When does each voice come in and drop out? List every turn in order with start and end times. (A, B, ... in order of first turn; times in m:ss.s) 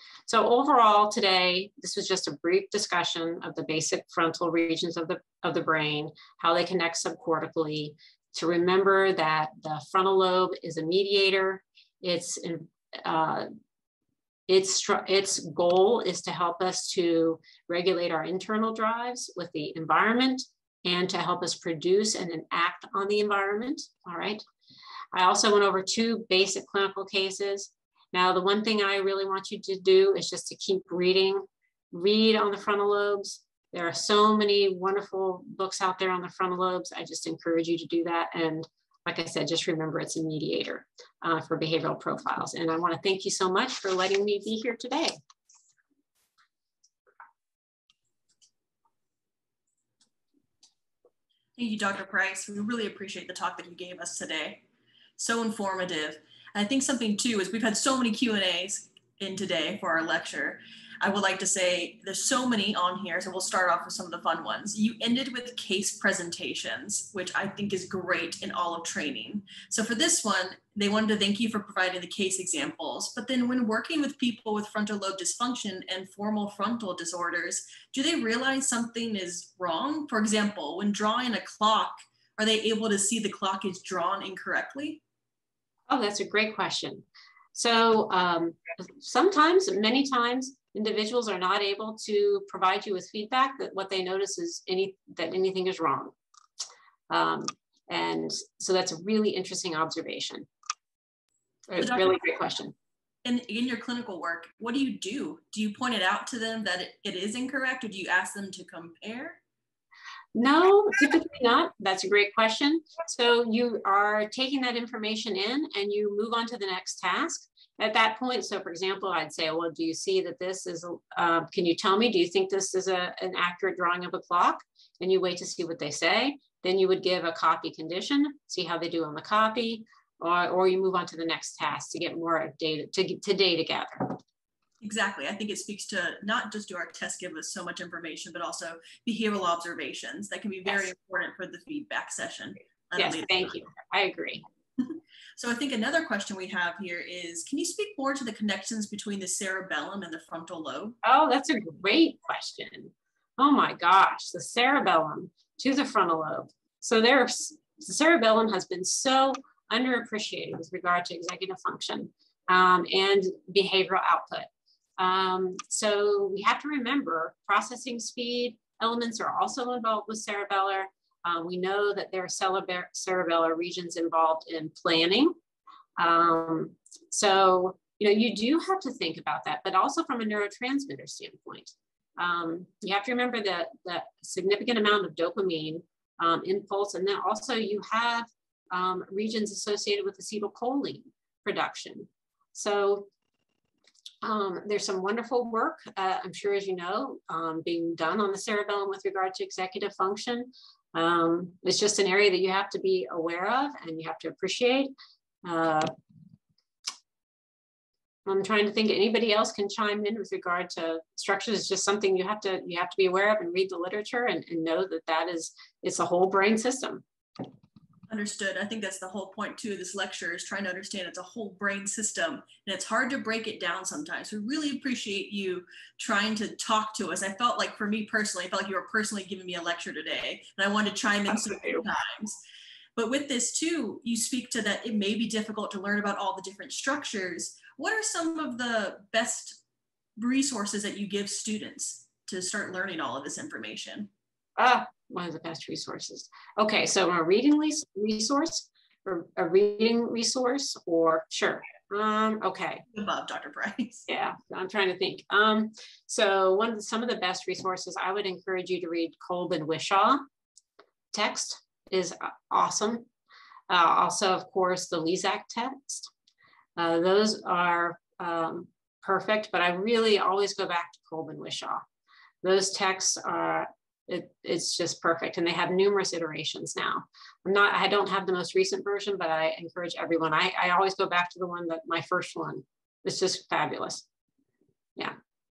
0:00.3-0:13.5 A
0:14.5-0:24.4 A
0:25.1-0:45.2 A
0:51.6-0:54.6 B
0:55.2-1:25.0 B
1:25.9-1:36.1 A
1:37.1-1:40.5 A
1:41.7-1:42.8 A
1:41.8-1:42.2 B
1:43.2-1:49.4 B
1:50.4-2:14.2 A
2:14.8-2:23.6 B
2:23.0-2:24.4 A
2:25.4-2:31.0 B
2:31.0-2:55.3 A
2:56.0-3:13.1 A
3:14.2-3:24.9 A
3:25.4-3:25.9 A
3:28.3-3:37.0 A
3:38.1-3:52.4 B
3:51.3-3:51.8 A
3:53.0-3:59.6 B
4:00.2-4:04.1 B
4:04.6-4:12.8 A
4:12.9-4:14.1 B
4:14.1-4:20.2 A
4:21.1-4:23.1 A
4:23.7-4:26.1 A
4:26.8-4:31.8 A
4:32.4-4:44.1 A